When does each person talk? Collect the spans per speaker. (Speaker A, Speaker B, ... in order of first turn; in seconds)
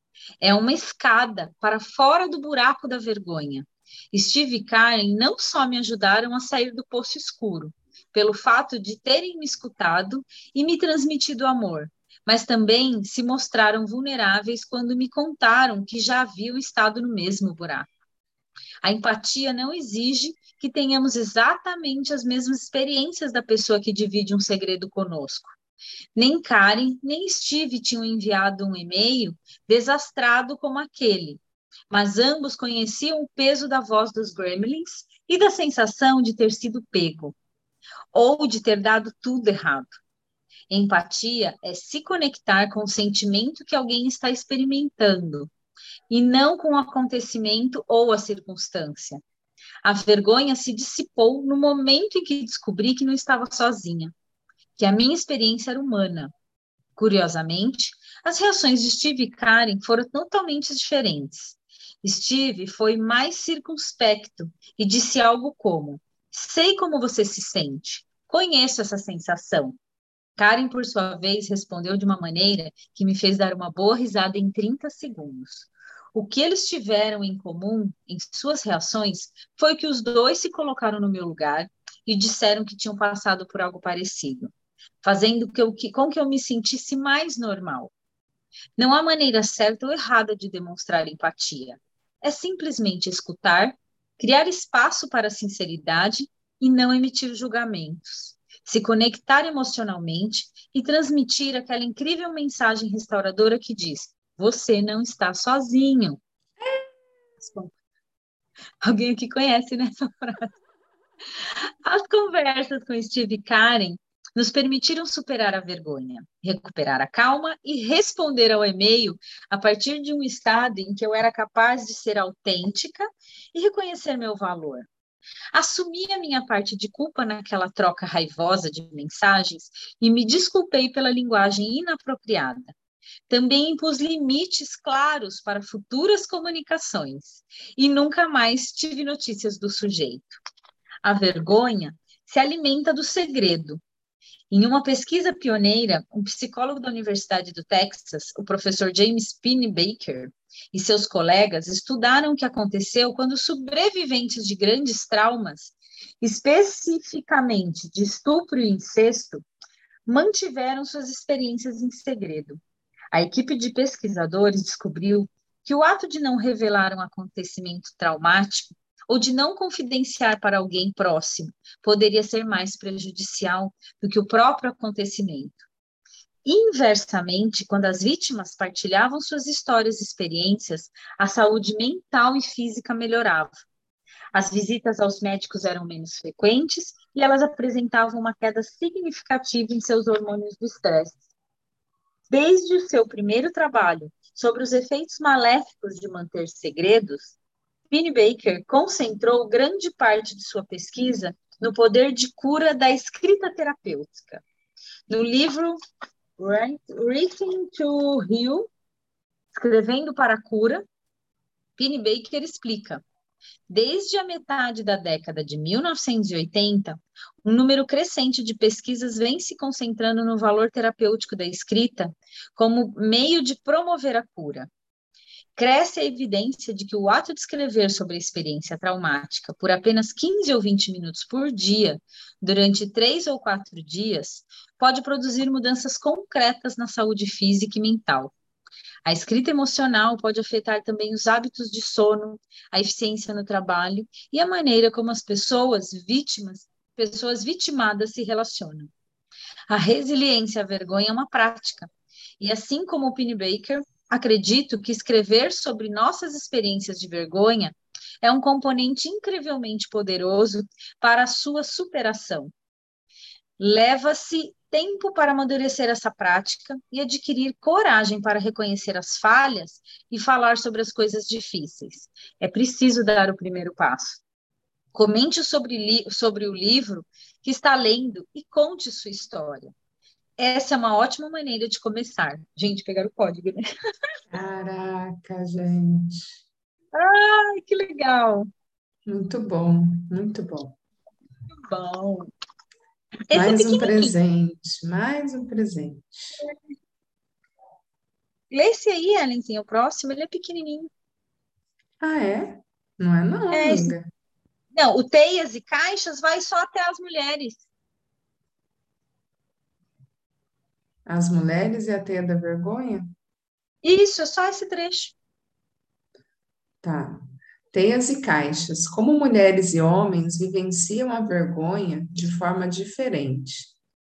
Speaker A: 0.4-17.9, 18.8-25.6, 26.2-37.4, 38.1-39.9, 40.7-45.5, 46.1-49.2, 49.8-54.1, 54.8-56.3, 57.0-69.8, 70.4-87.9, 88.8-106.2, 107.4-107.7, 108.8-110.5, 111.5-124.9, 125.5-132.7, 133.3-140.4, 141.0-143.8, 144.5-159.4, 160.1-162.6, 163.1-175.7, 176.5-183.5, 184.3-191.2, 192.3-197.4, 197.9-204.4, 205.1-205.8, 206.4-208.7, 209.5-210.8, 211.8-213.0, 213.7-224.7, 225.6-238.3, 239.1-248.9, 249.7-262.5, 263.6-274.2, 274.9-279.7, 280.4-283.6, 286.9-288.5, 291.5-292.3, 293.3-294.1, 298.5-300.9, 303.5-303.9, 304.7-307.7, 313.8-315.2
Speaker B: 106.6-106.9, 284.3-286.4, 289.1-290.8, 293.3-296.4, 302.0-304.1, 311.1-313.1, 316.8-323.8